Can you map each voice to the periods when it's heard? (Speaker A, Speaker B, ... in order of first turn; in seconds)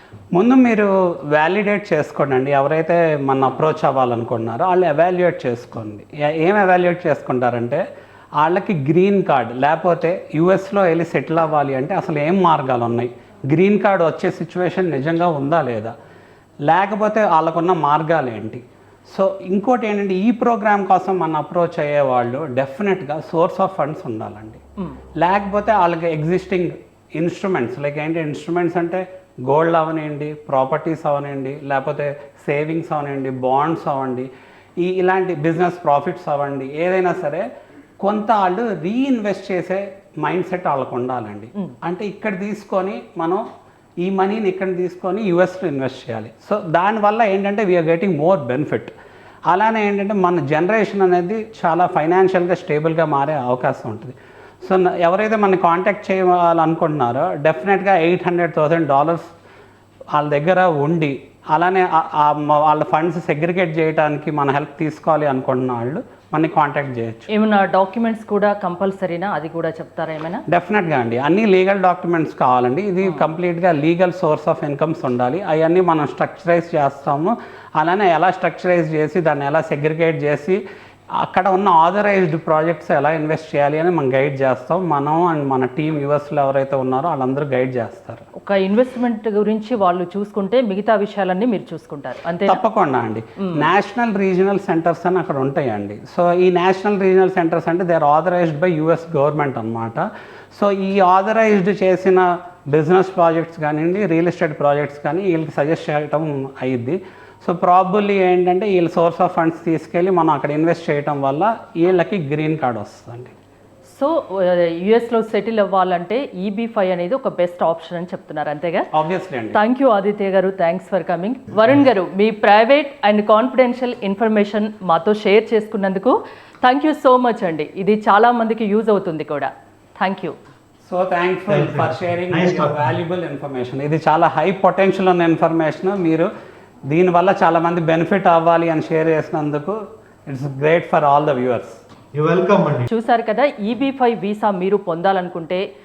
Speaker A: 0.3-7.8, 8.4-15.9, 16.7-24.6, 25.2-34.3, 34.8-37.4, 38.0-43.4, 44.0-48.9, 49.5-59.3, 60.1-67.3, 70.5-80.6, 81.2-88.2, 92.5-113.3, 118.9-119.6, 130.8-136.3, 136.9-139.8, 140.3-141.8
Speaker B: 67.3-70.4, 88.4-92.6, 93.4-93.7, 113.9-118.8, 119.5-130.3, 142.9-145.6
Speaker C: 131.5-132.9, 142.2-142.9